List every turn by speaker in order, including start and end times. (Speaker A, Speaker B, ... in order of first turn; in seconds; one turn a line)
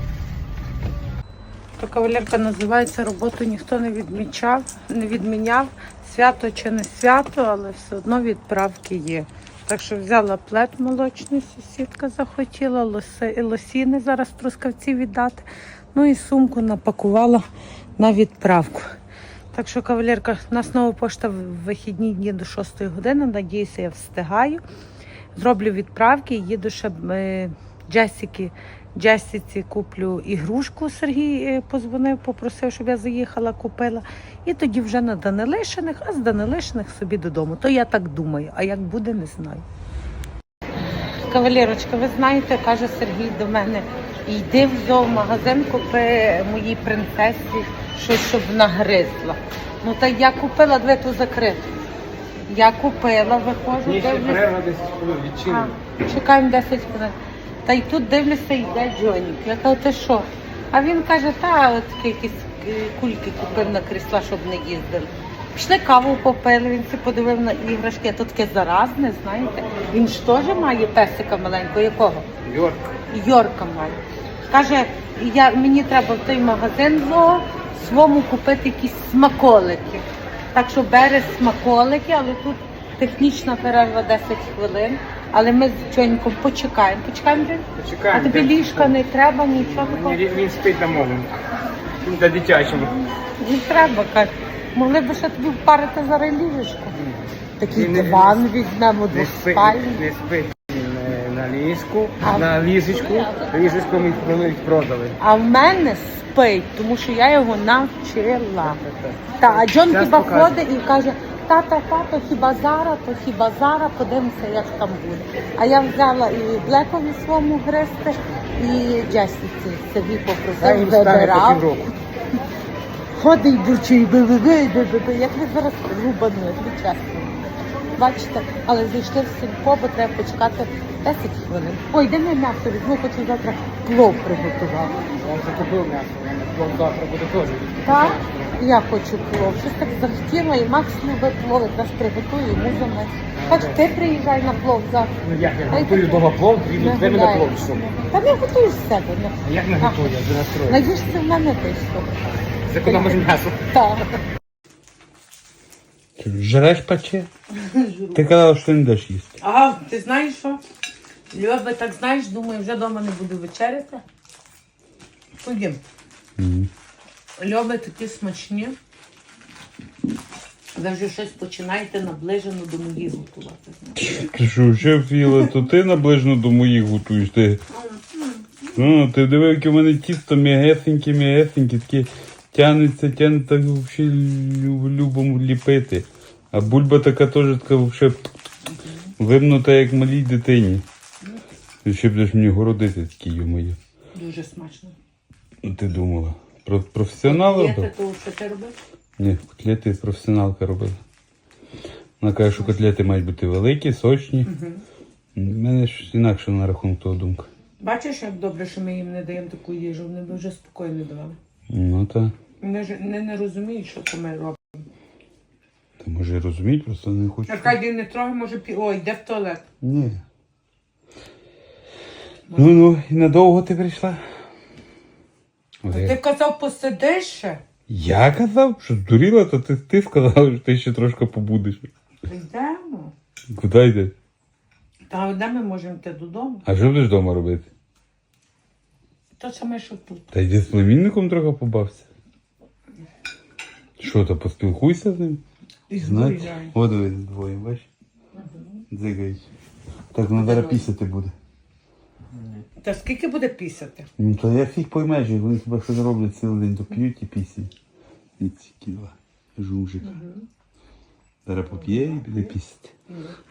Speaker A: 1.8-17.4
Speaker A: 18.0-18.9
Speaker A: 19.5-24.6
Speaker A: 25.4-39.6
Speaker A: 41.2-51.7
Speaker A: 52.5-54.5
Speaker B: 53.8-55.7
Speaker A: 55.4-72.3
Speaker B: 72.4-72.9
Speaker A: 73.1-90.2
Speaker B: 87.8-88.9
Speaker B: 89.5-91.4
Speaker B: 92.0-93.0
Speaker A: 93.4-97.0
Speaker B: 97.0-98.4
Speaker A: 97.6-100.0
Speaker B: 99.1-105.2
Speaker A: 102.2-104.1
Speaker A: 105.2-108.8
Speaker B: 108.6-110.5
Speaker A: 109.4-121.8
Speaker B: 120.6-121.9
Speaker A: 123.1-135.1
Speaker B: 135.2-138.6
Speaker A: 137.8-152.1
Speaker B: 143.3-143.8
Speaker B: 145.2-147.8
Speaker B: 149.4-150.9
Speaker B: 152.5-153.6
Speaker A: 152.8-154.1
Speaker C: 156.2-157.3
Speaker A: 157.6-158.2
Speaker C: 158.1-159.4
Speaker A: 159.4-160.6
Speaker A: 161.3-164.0
Speaker A: 165.4-165.8
Speaker C: 166.4-166.7
Speaker A: 167.4-168.8
Speaker A: 170.8-174.0
Speaker C: 174.0-177.6
Speaker A: 177.8-178.5
Speaker C: 178.7-188.3
Speaker A: 188.7-189.1
Speaker C: 189.2-190.8
Speaker C: 191.8-193.8
Speaker A: 194.1-194.9
Speaker C: 195.6-197.9
Speaker A: 197.2-198.7
Speaker C: 199.2-201.0
Speaker C: 202.2-204.5
Speaker A: 204.4-204.8
Speaker C: 205.4-207.5
Speaker A: 207.8-211.4
Speaker C: 211.7-212.3
Speaker A: 212.6-214.9
Speaker C: 216.0-217.8
Speaker A: 217.5-219.6
Speaker C: 219.8-220.2
Speaker A: 222.5-222.8
Speaker C: 222.6-224.2
Speaker C: 225.8-226.2
Speaker A: 225.9-227.6
Speaker C: 227.9-231.9
Speaker A: 232.3-233.1
Speaker C: 233.5-234.1
Speaker A: 235.1-236.6
Speaker C: 236.6-237.7
Speaker A: 239.4-240.3
Speaker C: 240.3-242.1
Speaker C: 244.0-245.4
Speaker A: 245.9-246.7
Speaker C: 246.0-247.9
Speaker A: 248.3-248.8
Speaker C: 248.9-249.4
Speaker C: 250.1-251.3
Speaker A: 250.4-250.9
Speaker A: 252.8-254.1
Speaker C: 254.2-257.7
Speaker C: 258.4-260.1
Speaker A: 260.0-260.4
Speaker C: 261.4-262.9
Speaker A: 261.8-262.5
Speaker A: 263.1-263.4